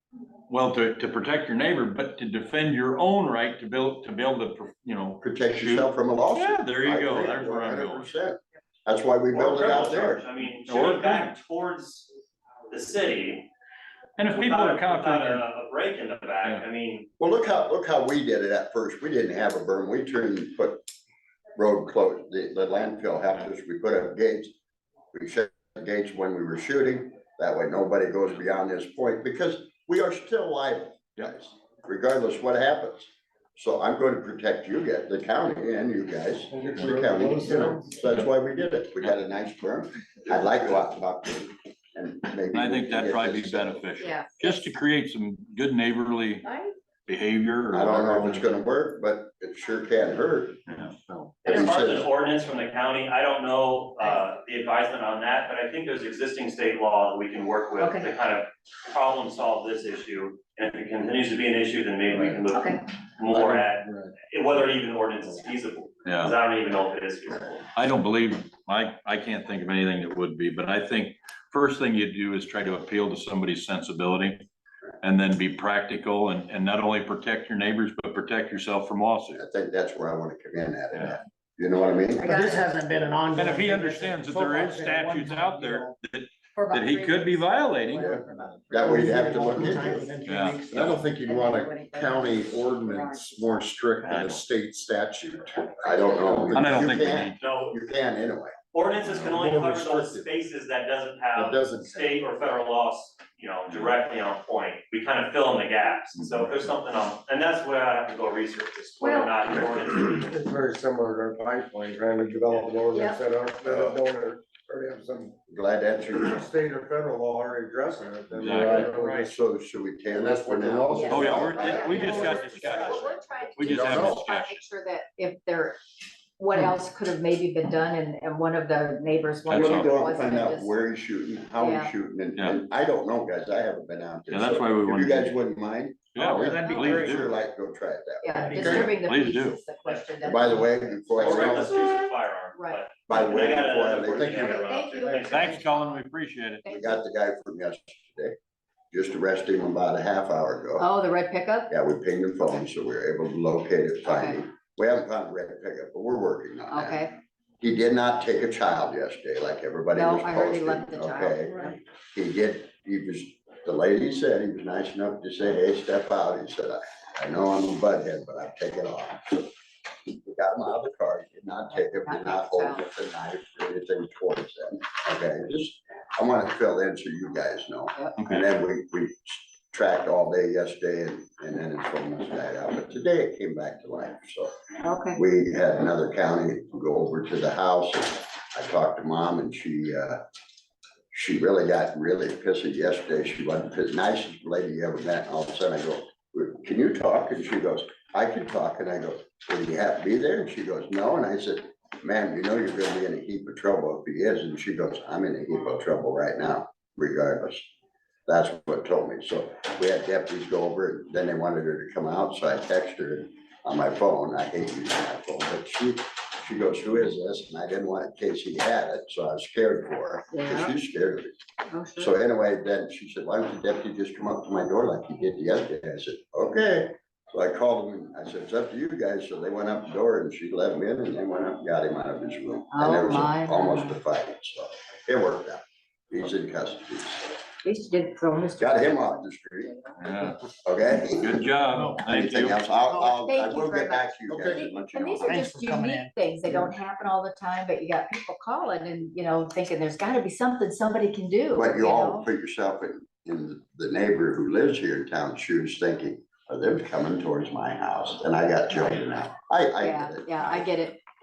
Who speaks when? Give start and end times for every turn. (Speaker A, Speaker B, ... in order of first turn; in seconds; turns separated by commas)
Speaker A: 0.5-8.1, Speaker B: 5.2-10.2, Speaker C: 9.3-12.1, Speaker A: 10.6-11.3, Speaker C: 12.7-13.5, Speaker A: 14.2-15.4, Speaker C: 14.3-17.1, Speaker B: 17.2-20.9, Speaker B: 21.6-24.5, Speaker B: 25.1-43.8, Speaker D: 36.5-38.0, Speaker A: 42.5-46.5, Speaker E: 44.0-44.6, Speaker E: 46.4-46.7, Speaker A: 47.1-48.5, Speaker B: 47.7-50.9, Speaker C: 51.4-67.7, Speaker B: 51.5-52.1, Speaker E: 57.8-58.1, Speaker E: 62.5-62.8, Speaker A: 66.1-66.3, Speaker A: 67.8-74.5, Speaker A: 75.0-79.4, Speaker B: 79.3-82.6, Speaker E: 82.2-82.7, Speaker F: 82.2-85.9, Speaker A: 83.3-88.1, Speaker G: 84.1-84.6, Speaker E: 86.5-89.0, Speaker B: 88.0-90.2, Speaker F: 88.8-91.0, Speaker G: 88.8-89.7, Speaker A: 90.2-90.8, Speaker G: 90.4-96.0, Speaker E: 90.8-93.7, Speaker A: 94.1-94.4, Speaker E: 95.8-96.5, Speaker B: 95.8-98.6, Speaker A: 96.5-97.4, Speaker C: 97.4-97.8, Speaker C: 98.7-110.4, Speaker G: 99.0-100.3, Speaker G: 101.3-102.2, Speaker E: 109.0-109.3, Speaker D: 110.3-115.4, Speaker E: 112.9-113.2, Speaker B: 113.7-114.0, Speaker B: 115.5-116.4, Speaker D: 116.2-119.4, Speaker A: 118.4-119.3, Speaker B: 118.5-121.8, Speaker D: 120.1-122.4, Speaker E: 120.9-125.8, Speaker A: 121.1-124.6, Speaker D: 123.6-124.2, Speaker E: 126.4-130.9, Speaker A: 129.5-129.9, Speaker B: 129.5-138.9, Speaker E: 131.6-131.9, Speaker A: 134.3-135.3, Speaker A: 136.1-137.5, Speaker E: 136.6-137.2, Speaker E: 138.2-140.9, Speaker A: 138.4-139.6, Speaker B: 140.2-141.8, Speaker C: 141.1-145.6, Speaker G: 141.2-141.7, Speaker E: 141.5-142.0, Speaker E: 142.5-142.8, Speaker B: 143.1-144.6, Speaker E: 144.4-145.9, Speaker A: 145.2-146.6, Speaker E: 146.7-147.0, Speaker B: 146.7-148.4, Speaker B: 148.9-150.9, Speaker E: 150.8-151.7, Speaker B: 151.7-169.5, Speaker E: 154.0-154.4, Speaker E: 156.7-157.1, Speaker E: 159.9-161.8, Speaker B: 170.1-184.5, Speaker E: 171.7-172.8, Speaker A: 178.2-178.4, Speaker E: 184.8-185.2, Speaker B: 185.1-190.2, Speaker B: 191.1-207.7, Speaker B: 208.3-221.4, Speaker E: 220.3-220.8, Speaker E: 221.7-222.2, Speaker B: 222.0-237.3, Speaker E: 232.7-234.0, Speaker E: 237.6-238.9, Speaker B: 238.6-239.8, Speaker A: 240.0-240.4, Speaker B: 240.6-241.5, Speaker A: 241.2-242.6, Speaker B: 242.0-245.5, Speaker E: 243.1-252.3, Speaker D: 244.3-244.6, Speaker F: 245.3-246.1, Speaker B: 251.5-260.7, Speaker E: 259.8-261.0